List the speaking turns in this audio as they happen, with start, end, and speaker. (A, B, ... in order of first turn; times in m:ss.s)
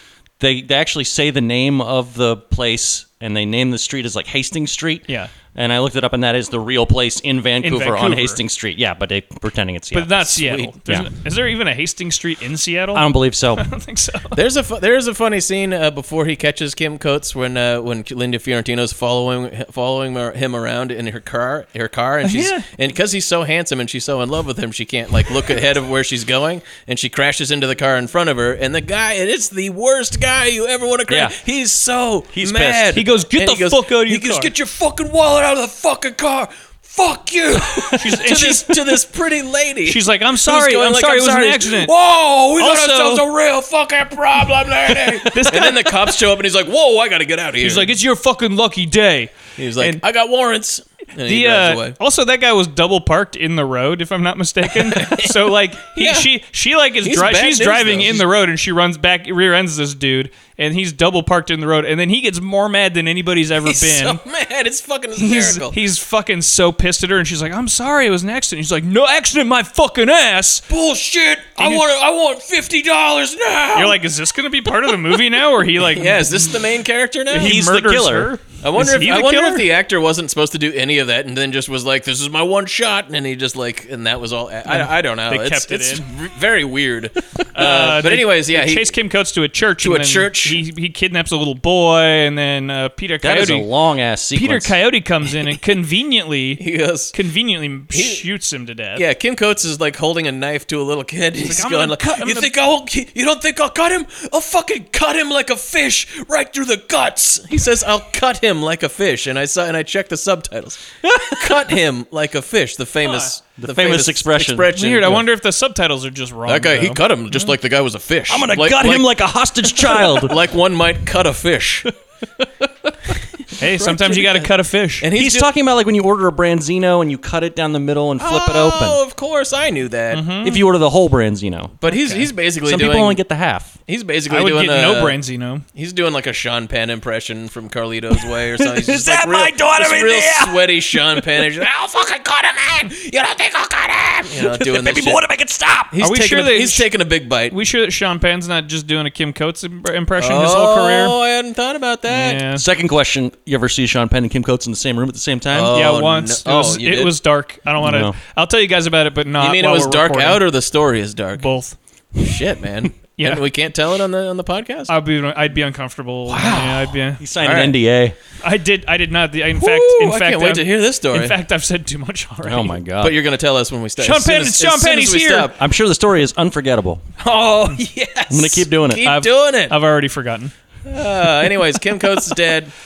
0:00.4-0:11.1 A
0:07.6-0:08.4 B
0:09.9-0:14.4 B
0:12.9-0:13.7 A
0:14.3-0:47.9 C
0:22.2-0:22.7 B
0:31.1-0:31.4 A
0:32.3-0:33.1 A
0:32.9-0:34.5 B
0:38.0-0:39.0 B
0:39.9-0:41.9 B
0:42.6-0:43.2 B
0:45.1-0:46.1 B
0:47.6-0:50.0 B
0:49.6-0:52.0 C
0:51.2-1:04.2 B
0:54.7-0:56.3 C
0:57.0-0:58.3 C
1:03.6-1:05.8 C
1:05.2-1:10.6 B
1:10.7-1:14.0 C
1:11.6-1:11.8 B
1:13.7-1:16.5 B
1:15.8-1:17.6 C
1:17.3-1:19.6 B
1:17.4-1:18.4 A
1:18.6-1:28.9 C
1:24.7-1:26.0 B
1:27.5-1:33.7 B
1:29.8-1:30.6 C
1:33.2-1:34.8 A
1:34.3-1:36.6 B
1:36.6-1:37.1 C
1:37.1-1:39.0 B
1:37.9-1:38.2 C
1:39.0-1:55.2 C
1:41.4-1:42.5 B
1:51.0-1:51.6 A
1:53.0-1:53.3 B
1:53.6-1:54.7 A
1:54.8-1:57.0 B
1:56.5-2:01.9 C
1:58.3-2:00.4 A
2:02.4-2:03.1 A
2:03.4-2:05.5 C
2:03.6-2:05.0 B
2:05.2-2:09.0 A
2:08.2-2:10.5 C
2:10.1-2:10.6 B
2:10.4-2:11.8 A
2:11.8-2:13.2 C
2:11.9-2:12.2 B
2:12.6-2:13.7 A
2:13.9-2:15.2 C
2:14.3-2:15.6 B
2:15.8-2:25.2 C
2:18.2-2:20.6 A
2:21.2-2:21.4 A
2:24.3-2:25.9 A
2:25.9-2:27.6 C
2:26.0-2:26.9 B
2:27.5-2:31.2 B
2:30.2-2:32.4 C
2:32.1-2:32.6 B
2:32.6-2:35.8 A
2:35.5-2:37.1 C
2:35.7-2:40.4 B
2:37.8-2:38.2 A
2:39.4-2:41.6 C
2:41.4-2:41.8 B
2:42.2-2:44.9 C
2:44.9-2:47.2 B
2:46.3-2:47.8 C
2:47.2-2:48.2 A
2:48.4-2:52.8 B
2:49.5-2:51.4 C
2:52.4-2:53.2 A
2:53.0-2:55.6 C
2:54.0-2:55.5 B
2:55.6-2:57.0 A
2:57.2-2:59.8 C
2:58.3-2:59.0 A
2:59.0-3:00.5 B
3:00.9-3:02.7 C